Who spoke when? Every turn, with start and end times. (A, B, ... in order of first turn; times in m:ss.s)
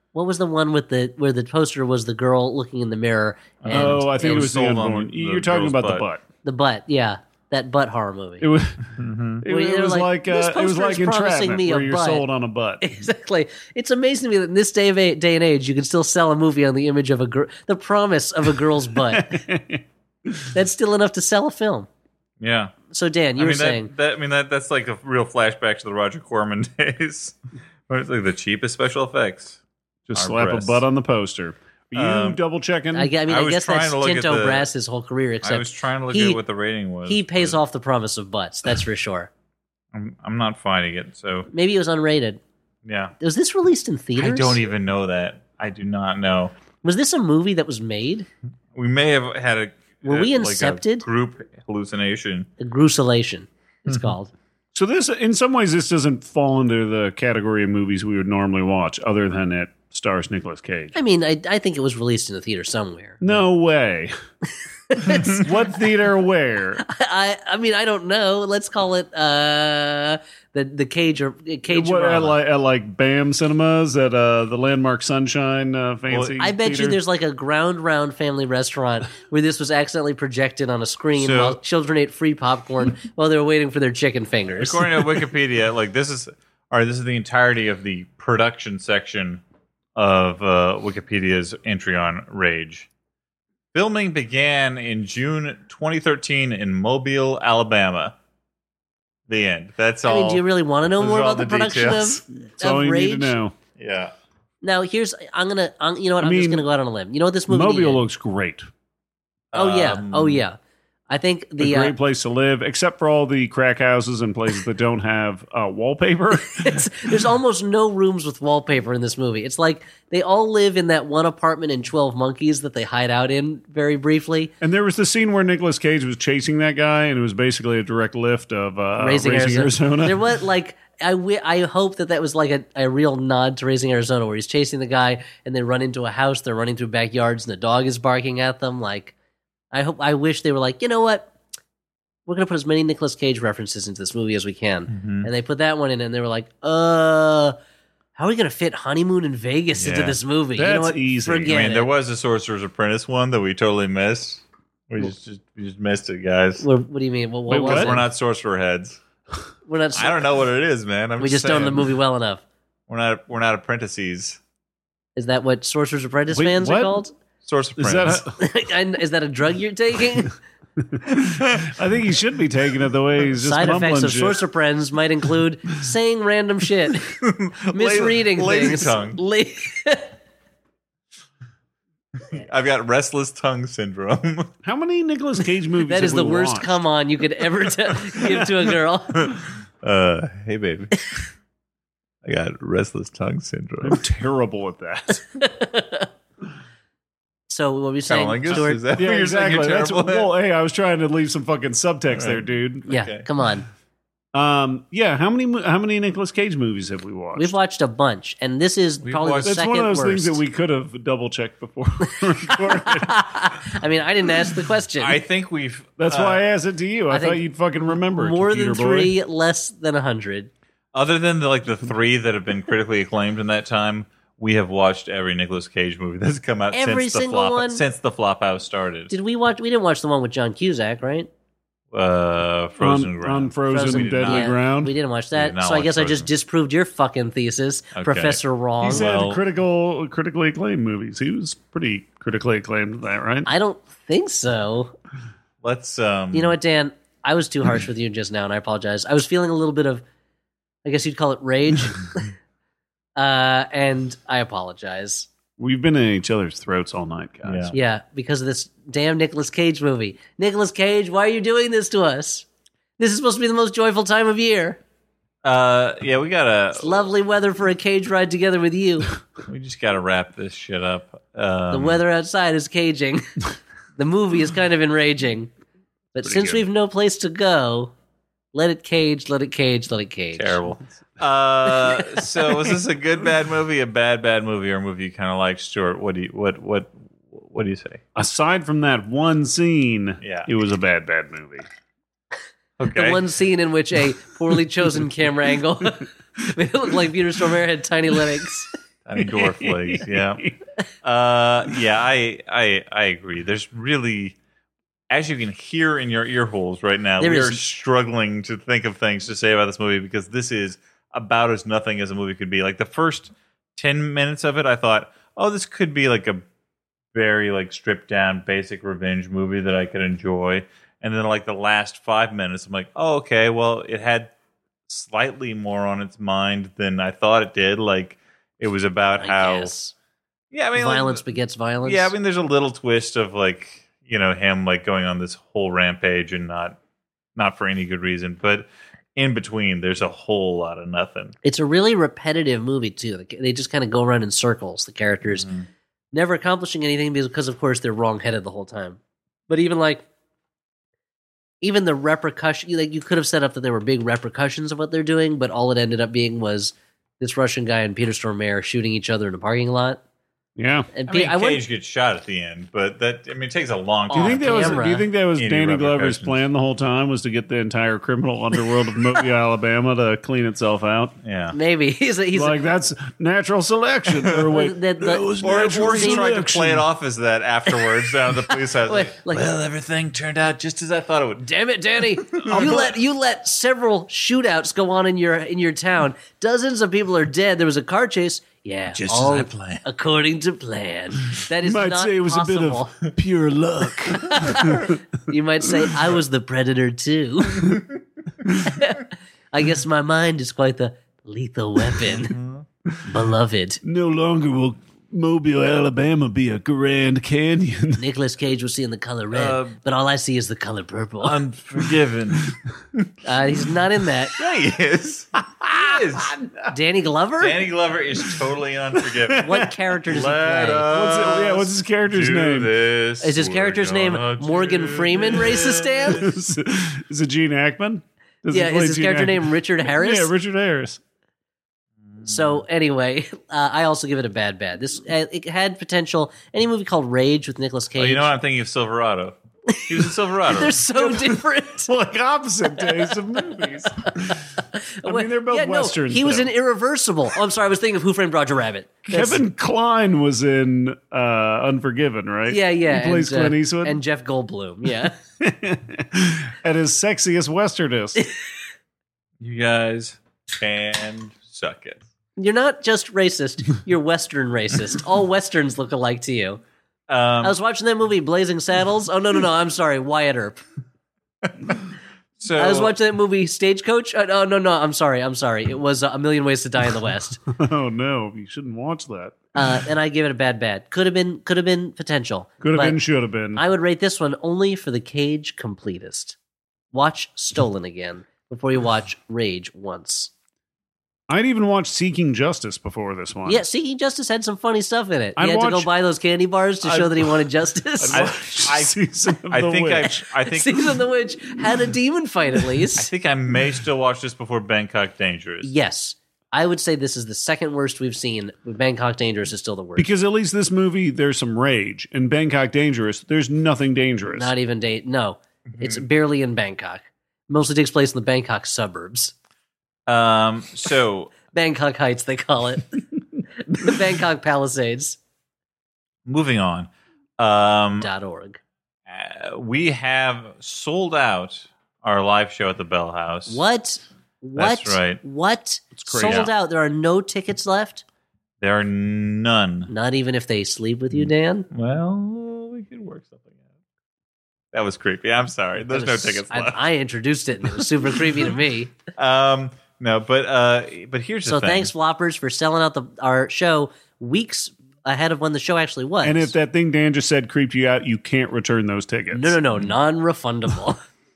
0:00.1-0:04.1 A
0:03.6-0:06.1 B
0:03.7-0:06.2 C
0:06.4-0:08.5 A
0:08.4-0:08.9 C
0:08.9-0:09.4 B
0:09.4-0:12.9 C
0:09.4-0:12.2 A
0:12.8-0:19.4 A
0:19.1-0:20.5 C
0:20.5-0:21.9 A
0:22.4-0:22.7 B
0:22.9-0:23.9 A
0:23.4-0:27.3 B
0:27.9-0:29.6 B
0:30.1-0:33.1 C
0:30.1-0:30.8 B
0:31.9-0:32.4 B
0:32.9-0:36.4 A
0:33.3-0:34.7 B
0:35.4-0:37.6 B
0:37.0-0:39.3 A
0:39.9-0:41.5 B
0:41.5-0:42.4 A
0:42.8-0:43.1 B
0:43.2-0:44.6 A
0:44.2-0:46.5 B
0:46.8-0:48.3 A
0:48.7-0:52.5 B
0:50.0-0:51.1 A
0:52.6-0:54.3 A
0:54.7-1:00.9 C
1:00.9-1:03.2 A
1:03.2-1:04.1 C
1:04.9-1:05.6 A
1:05.1-1:06.8 C
1:06.8-1:12.4 A
1:11.7-1:17.0 C
1:16.1-1:16.4 B
1:16.4-1:25.0 A
1:21.2-1:21.6 B
1:24.6-1:29.4 B
1:30.0-1:32.9 B
1:33.7-1:38.1 B
1:39.3-1:40.4 B
1:40.0-1:43.3 A
1:41.0-1:42.2 B
1:42.4-1:43.5 C
1:43.8-1:44.1 B
1:44.6-1:48.0 A
1:46.2-1:46.7 C
1:47.5-1:48.7 C
1:49.5-1:50.4 B
1:49.5-1:50.6 A
1:51.1-1:51.9 A
1:51.6-1:57.1 C
1:56.3-2:04.5 A
2:04.6-2:10.3 C
2:09.0-2:19.1 A
2:19.7-2:21.3 A
2:22.3-2:27.6 A
2:24.9-2:25.3 B
2:28.2-2:31.9 A
2:29.8-2:30.2 B
2:30.6-2:31.5 C
2:31.4-2:36.6 B
2:36.6-2:38.1 A
2:37.5-2:38.0 C
2:37.6-2:39.0 B
2:39.7-2:40.3 A
2:39.9-2:41.8 B
2:41.2-2:42.4 A
2:42.9-2:44.4 B
2:45.2-2:47.1 A
2:46.3-2:47.0 C
2:47.4-2:48.2 B
2:47.8-2:48.4 C
2:48.3-2:50.3 A
2:51.2-2:51.7 B
2:51.6-2:54.4 C
2:53.4-2:57.1 A
2:57.2-2:59.2 B
2:57.7-3:00.1 A
3:02.2-3:04.5 B
3:04.6-3:06.8 C
3:05.8-3:09.3 A
3:08.2-3:08.5 C
3:09.2-3:11.0 B
3:12.2-3:14.0 B
3:13.8-3:15.2 C
3:15.4-3:16.1 A
3:17.5-3:18.8 A
3:18.1-3:20.3 B
3:18.9-3:22.9 C
3:22.1-3:23.2 B
3:22.9-3:23.7 A
3:24.3-3:27.5 C
3:27.4-3:30.4 A
3:29.0-3:29.5 B
3:29.4-3:33.5 C
3:32.6-3:35.2 A
3:35.0-3:36.4 B
3:36.0-3:39.1 C
3:37.1-3:37.4 A
3:38.0-3:40.5 A
3:40.9-3:49.1 B
3:46.7-3:47.8 A
3:49.1-3:51.3 A
3:51.9-3:54.5 B
3:52.8-3:54.9 C
3:53.7-3:59.1 A
3:55.3-3:56.3 B
3:57.9-3:59.4 B
3:58.8-4:03.5 C
4:03.4-4:04.9 A
4:05.6-4:06.6 B
4:06.3-4:10.0 A
4:10.8-4:12.3 A
4:13.2-4:15.3 A
4:15.6-4:17.8 C
4:17.4-4:17.7 B
4:17.7-4:22.4 A
4:23.0-4:24.8 A
4:25.4-4:27.1 B
4:26.8-4:29.1 A
4:29.4-4:32.0 B
4:31.7-4:33.4 A
4:34.0-4:35.5 A
4:36.1-4:37.9 A
4:38.5-4:40.6 A
4:40.3-4:48.0 B
4:48.1-4:51.7 C
4:50.2-4:50.5 B
4:52.8-4:53.2 B
4:52.9-4:58.7 A
4:59.0-5:00.5 B
4:59.2-5:00.5 C
5:01.0-5:04.4 B
5:05.1-5:16.4 B
5:07.2-5:07.6 A
5:17.1-5:24.3 B
5:24.9-5:29.7 B
5:29.2-5:29.9 A
5:30.5-5:31.3 B
5:30.7-5:32.1 A
5:31.8-5:36.8 B
5:37.4-5:41.3 B
5:41.4-5:45.5 A
5:45.4-5:45.6 B
5:46.1-5:49.0 A
5:49.5-5:50.0 A
5:51.6-6:00.0 A
6:00.6-6:00.9 C
6:00.9-6:01.6 A
6:01.1-6:04.8 B
6:04.1-6:05.1 A
6:04.1-6:11.2 C
6:05.3-6:06.4 B
6:11.2-6:11.6 B
6:11.5-6:12.6 A
6:12.3-6:16.8 C
6:14.5-6:16.3 A
6:15.4-6:21.5 B
6:18.8-6:19.5 A
6:21.4-6:33.1 A
6:22.4-6:22.9 B
6:22.5-6:22.8 C
6:28.9-6:29.8 B
6:31.6-6:35.0 C
6:34.2-6:37.8 A
6:38.6-6:42.3 A
6:42.1-6:42.6 B
6:43.0-6:43.8 A
6:43.8-6:48.0 C
6:48.0-6:51.4 A
6:49.3-6:49.8 B
6:51.2-6:53.1 B
6:53.2-6:54.3 A
6:54.4-6:56.4 B
6:56.7-6:57.6 A
6:57.4-7:06.2 B
6:59.3-6:59.7 C
6:59.4-7:00.9 A
7:00.8-7:02.7 C
7:03.2-7:06.3 A
7:06.1-7:11.0 C
7:08.5-7:10.3 A
7:12.2-7:18.3 A
7:18.0-7:20.8 B
7:19.8-7:21.9 A
7:20.9-7:24.4 C
7:25.0-7:29.4 A
7:25.0-7:26.5 C
7:29.1-7:34.0 C
7:32.5-7:35.2 A
7:35.4-7:38.2 C
7:39.4-7:42.0 B
7:42.4-7:46.6 A
7:47.1-7:47.6 B
7:47.4-7:50.6 A
7:52.4-7:52.9 B
7:52.6-7:57.4 A
7:57.5-7:59.6 C
7:59.6-8:03.0 A
8:02.6-8:03.6 C
8:03.5-8:06.3 A
8:06.9-8:10.3 A
8:11.3-8:13.6 C
8:13.4-8:18.7 A
8:15.4-8:15.9 C
8:16.8-8:17.4 C
8:18.0-8:20.3 C
8:18.1-8:20.8 B
8:20.5-8:23.1 A
8:23.0-8:25.7 B
8:25.6-8:30.1 A
8:30.0-8:34.5 C
8:34.3-8:39.3 A
8:35.7-8:36.0 B
8:40.1-8:41.3 B
8:41.5-8:43.0 A
8:43.6-8:45.2 A
8:46.2-8:48.1 B
8:48.0-8:48.6 A
8:49.1-8:53.6 B
8:53.5-8:58.0 A
8:54.6-8:55.2 B
8:55.9-8:56.5 C
8:56.2-8:56.5 B
8:58.6-8:59.9 B
8:59.9-9:01.7 A
9:01.1-9:03.5 B
9:04.7-9:06.8 B
9:05.9-9:08.9 A
9:09.2-9:11.9 B
9:11.5-9:16.5 A
9:16.2-9:19.6 C
9:19.3-9:21.0 A